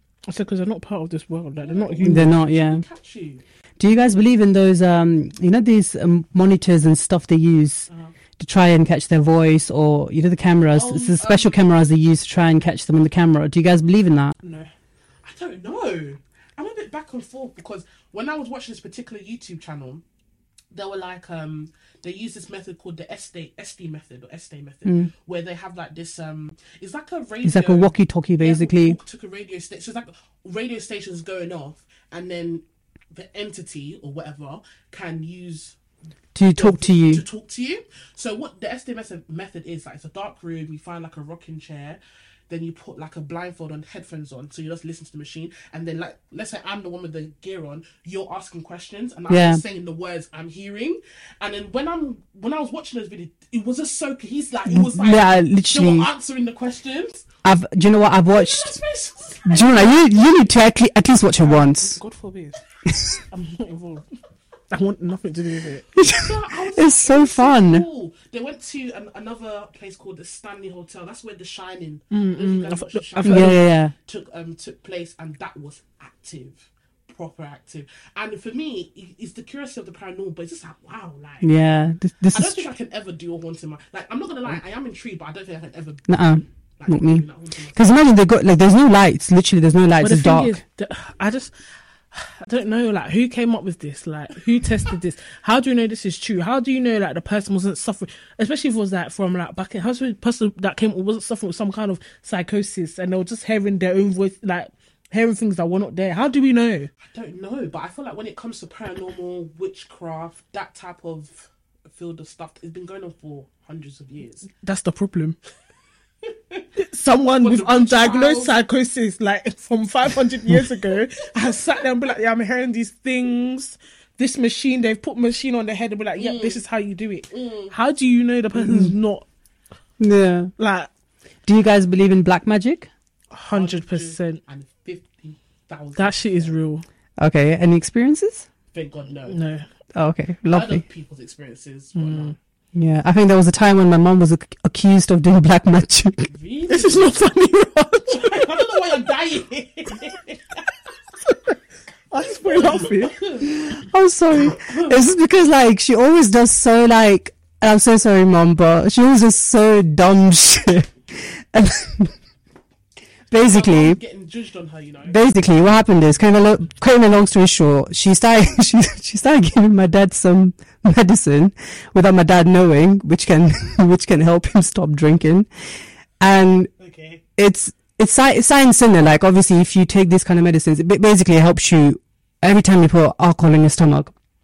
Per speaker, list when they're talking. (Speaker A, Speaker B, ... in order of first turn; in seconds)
Speaker A: 0.3-2.3, 14.4-14.7, 61.4-62.6, 63.3-64.1, 64.7-65.9, 72.1-73.6, 90.0-91.5, 92.1-106.9, 114.5-115.4, 116.8-129.2, 130.6-130.9, 133.3-134.4, 135.9-136.8, 139.3-139.6, 141.9-142.4, 146.7-148.7, 152.1-153.2
Speaker B: 1.6-3.4, 10.7-11.7, 15.2-20.0, 20.7-35.8, 36.5-57.2, 58.3-59.8, 66.1-81.5, 82.3-88.0, 107.1-114.5, 116.2-116.7, 117.4-118.6, 126.2-126.6, 127.3-127.7, 133.5-136.6, 138.7-139.4, 140.5-142.4, 146.3-147.2, 148.1-150.6, 152.2-153.5, 154.5-155.0, 163.4-165.2, 176.8-177.2
Speaker C: 2.0-2.8, 3.8-14.3, 24.9-25.1, 27.4-29.0, 36.4-37.2, 49.3-49.6, 54.7-56.1, 57.4-58.7, 59.5-62.0, 62.9-63.2, 66.0-67.9, 73.2-73.9, 81.4-82.7, 86.1-90.6, 128.6-128.9, 130.0-130.5, 131.4-132.9, 137.2-138.5, 139.9-140.8, 142.7-146.3, 153.7-162.1, 163.3-164.0, 165.1-175.5, 176.2-176.7, 177.4-184.1